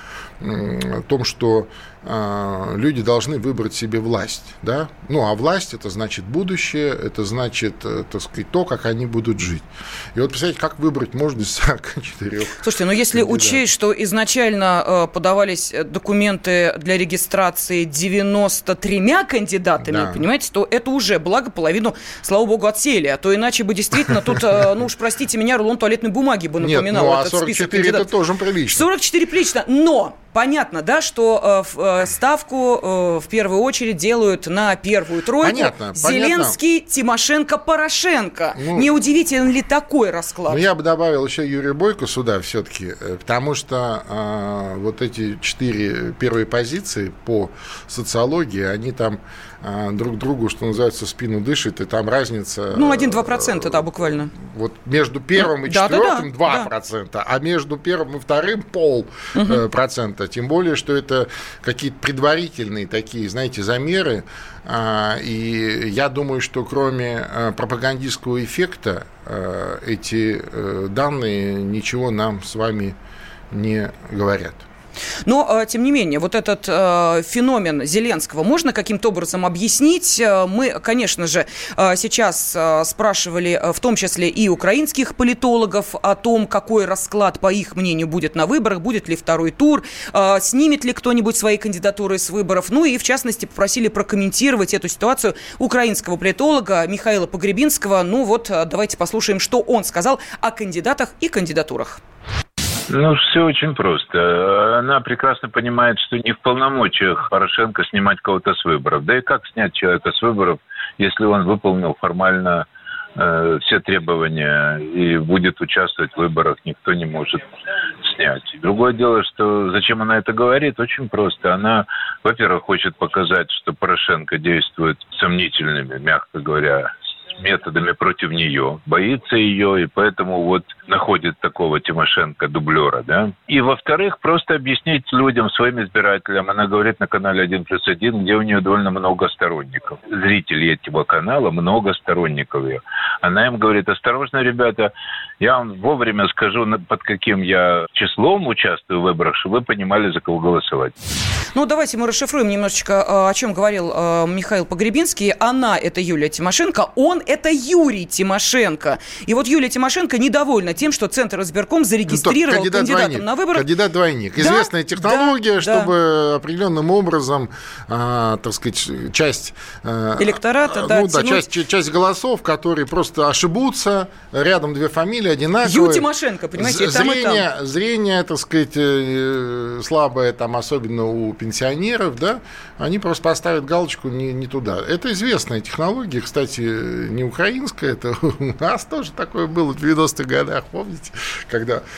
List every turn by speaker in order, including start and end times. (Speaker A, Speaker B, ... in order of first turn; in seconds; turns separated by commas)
Speaker A: 0.4-13.6, Speaker B: 12.6-28.1, Speaker A: 19.8-20.2, Speaker A: 26.6-28.9, Speaker B: 28.7-40.6, Speaker A: 35.4-36.6, Speaker A: 38.6-38.9, Speaker A: 40.5-73.0, Speaker B: 52.7-54.3, Speaker B: 55.4-56.7, Speaker B: 59.4-59.6, Speaker A: 73.5-74.7, Speaker B: 75.3-102.0, Speaker C: 102.9-117.5, Speaker C: 118.0-150.9, Speaker B: 151.6-163.7, Speaker A: 162.1-191.8, Speaker B: 164.4-165.9, Speaker B: 170.2-171.4, Speaker B: 175.6-177.4